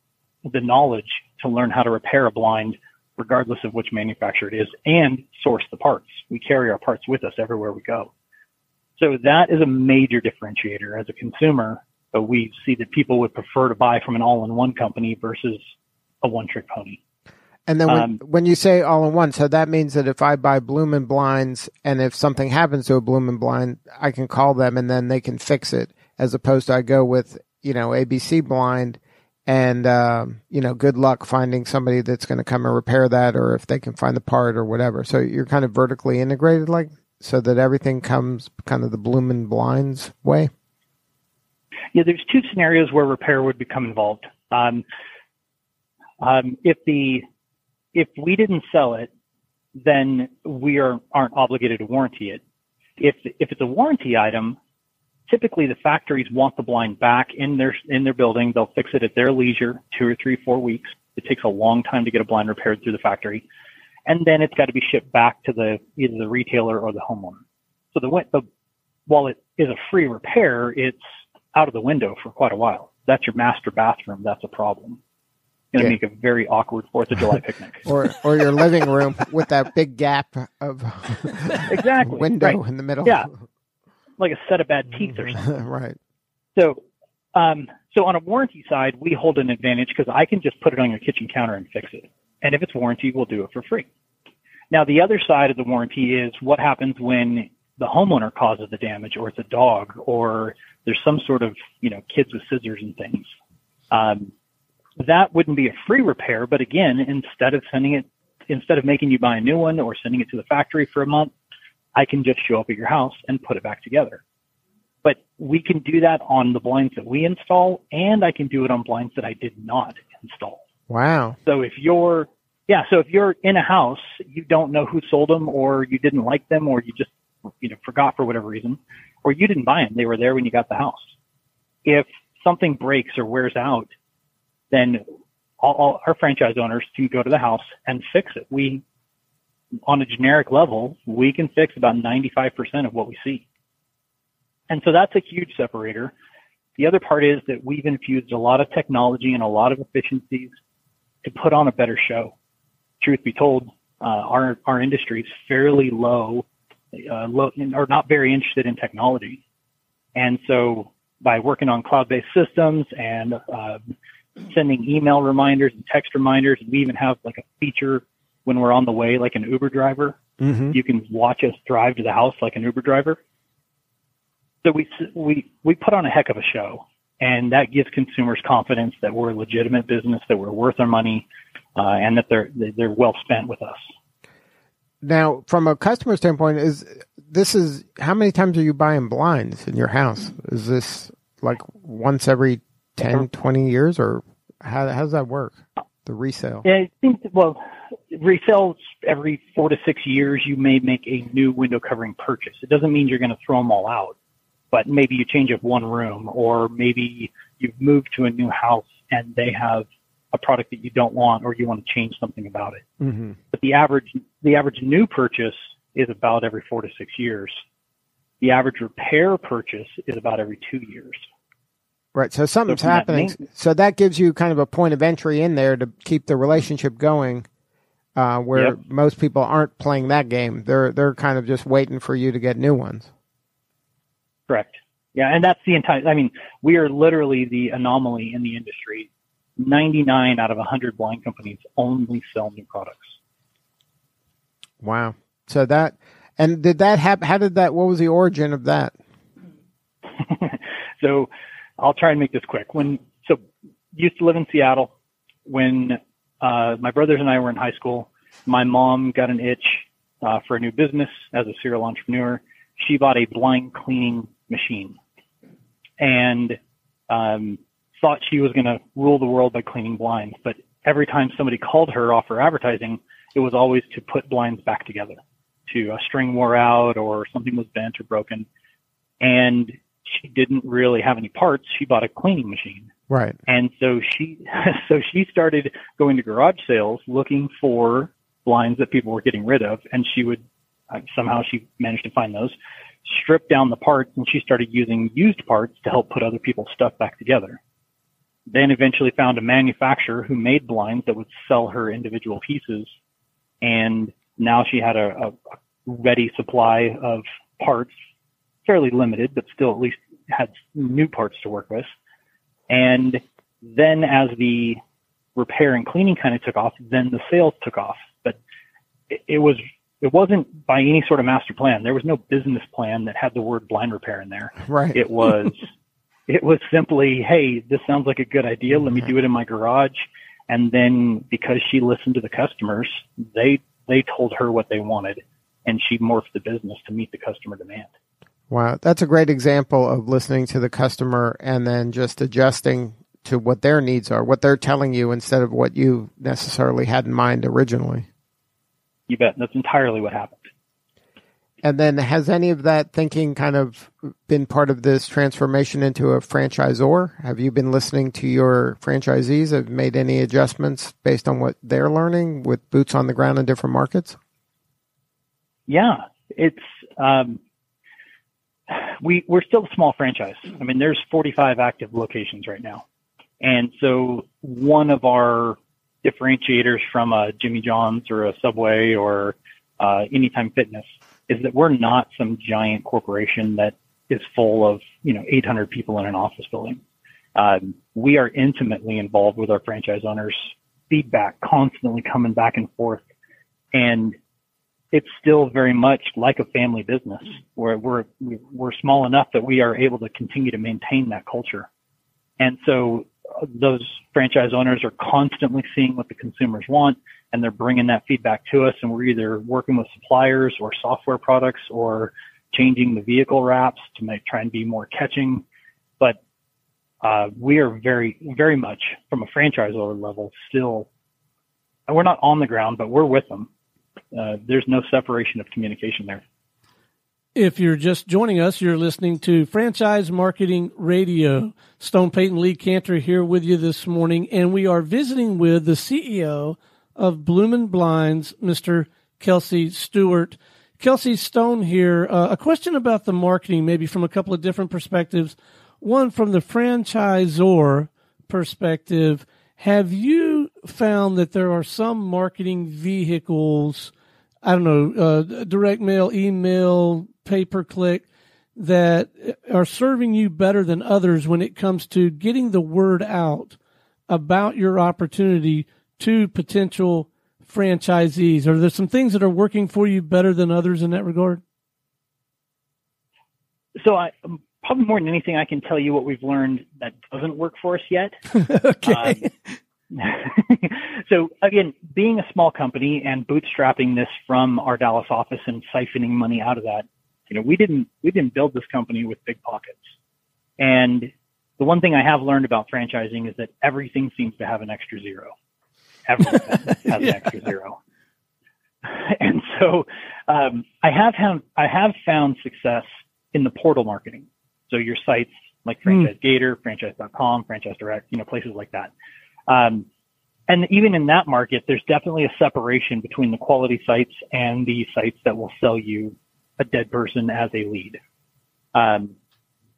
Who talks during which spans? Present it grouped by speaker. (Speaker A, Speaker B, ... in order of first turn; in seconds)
Speaker A: 0.5-8.1, 9.0-15.7, 16.2-17.0, 17.9-18.2, 41.9-44.8, 46.2-47.2, 47.9-49.1, 49.8-52.4, 53.0-54.6, 55.3-63.4, 64.1-67.4, 67.9-68.5, 69.1-75.0, 75.7-77.9, 81.7-83.3, 84.2-85.4, 86.5-86.8, 87.3-93.9, 94.7-103.3, 103.9-104.3, 105.0-111.3, 111.9-114.2, 115.0-120.6, 121.5-131.1, 131.8-133.9, 134.7-135.0, 135.6-138.8, 139.9-143.4, 144.7-146.1, 146.8-150.5, 151.2-152.3, 153.0-159.4, 160.1-163.9, 164.5-170.2, 170.7-173.2, 174.6-181.2, 181.8-183.9, 196.6-204.1, 204.7-212.8, 213.5-217.6, 218.4-221.2, 222.7-223.4, 234.5-243.2, 250.2-253.4, 253.9-254.9, 255.4-265.0, 266.0-266.6, 267.1-278.4, 279.2-282.9, 283.5-297.6, 298.5-302.9, 303.6-307.9, 308.6-311.9, 312.7-314.8, 315.4-318.4, 319.1-325.7, 326.3-337.9, 349.1-350.5, 365.7-367.4, 368.7-372.8, 373.4-386.8, 387.4-393.0, 393.7-394.2, 394.9-401.7, 402.4-415.4, 417.0-420.9, 421.9-423.5, 424.1-426.2, 473.8-478.2, 478.8-479.2, 479.9-489.9, 490.6-495.3, 496.1-497.8, 498.8-508.9, 509.5-509.9, 510.5-518.0, 518.7-519.1
Speaker B: 17.7-40.5, 77.8-83.3, 85.1-86.0, 120.9-121.4, 170.4-170.7, 185.0-196.6, 213.0-213.3, 222.1-227.5, 228.2-233.1, 244.8-248.9, 283.1-283.4, 324.6-325.0, 338.5-348.1, 351.6-364.2
Speaker C: 427.3-453.9, 454.4-458.0, 458.6-463.5, 464.1-471.4, 478.4-479.4